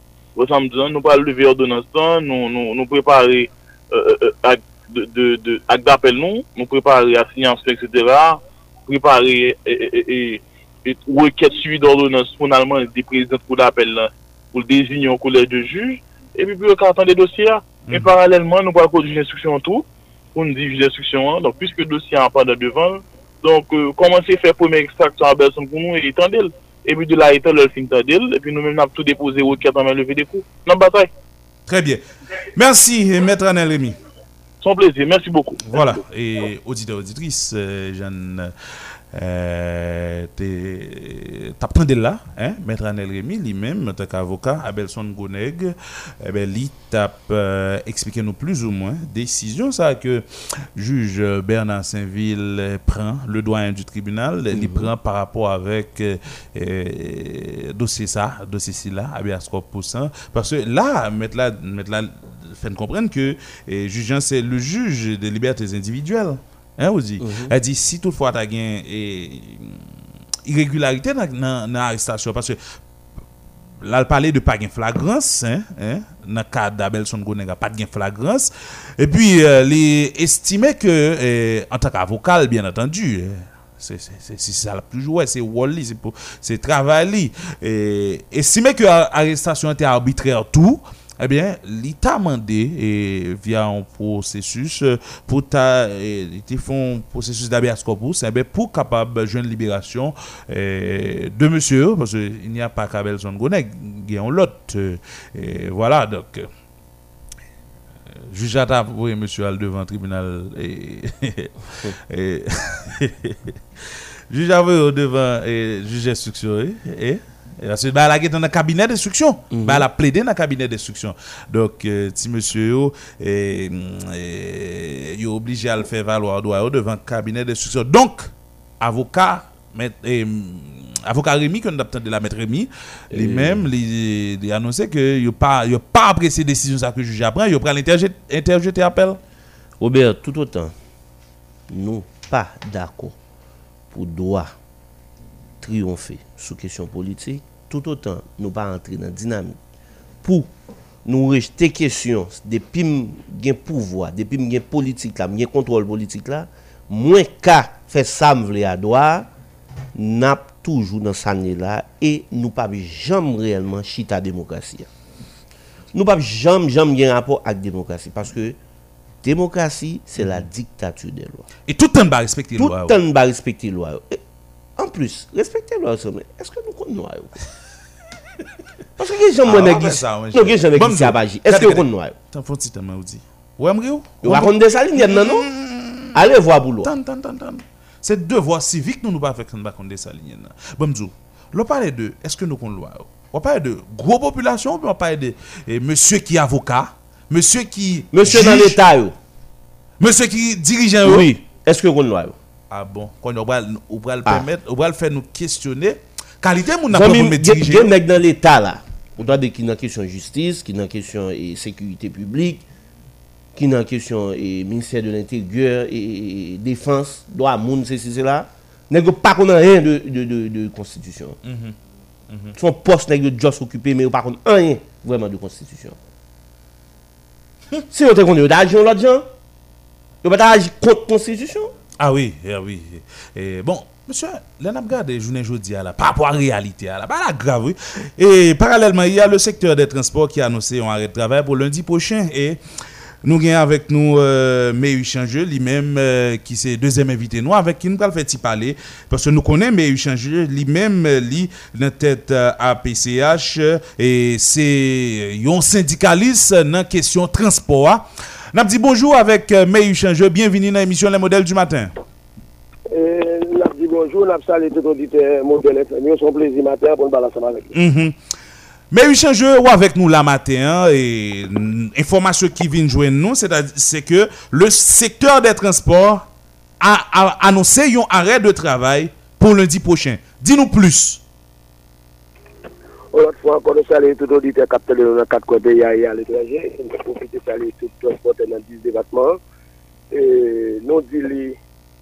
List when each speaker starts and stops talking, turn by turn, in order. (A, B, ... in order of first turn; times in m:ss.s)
0:00.4-0:31.1 A
0:31.7-0:32.0 B
0:32.5-0:34.0 B
0:34.6-0:35.9 A
0:35.7-0:38.5 B
0:39.1-1:09.8 B
0:54.5-0:54.9 C
1:07.2-1:07.5 C
1:10.4-1:12.6 B
1:13.8-1:46.5 B
1:48.3-1:51.5 B
1:52.0-1:53.6 B
1:54.3-2:19.2 B
1:59.5-1:59.8 C
2:13.1-2:13.6 C
2:19.8-2:20.7 C
2:21.7-2:23.2 C
2:23.9-2:24.5 C
2:25.6-2:29.6 C
2:30.2-2:30.5 C
2:31.0-2:39.3 C
2:39.9-2:44.9 C
2:45.9-2:48.6 C
2:49.2-2:51.5 C
2:51.7-2:53.0 B
2:52.6-2:54.2 C
2:54.8-2:57.3 C
2:59.0-3:02.2 C
2:59.4-3:06.2 B
3:04.2-3:05.5 C
3:06.1-3:06.9 C
3:06.8-3:18.8 B
3:18.1-3:19.1 C
3:20.0-3:21.4 B
3:21.0-3:22.4 C
3:22.7-3:27.9 B
3:26.9-3:32.6 C
3:33.5-3:41.4 C
3:41.4-3:41.7 B
3:42.3-3:42.6 B
3:42.6-3:46.0 C
3:47.9-3:49.2 C
3:50.2-3:51.7 C
3:52.0-4:02.6 B
4:03.2-4:21.9 B
4:22.9-4:27.7 D
4:27.7-4:28.1 B
4:28.9-4:36.3 B
4:36.8-4:41.2 B
4:43.1-4:49.4 D
4:50.1-4:51.6 D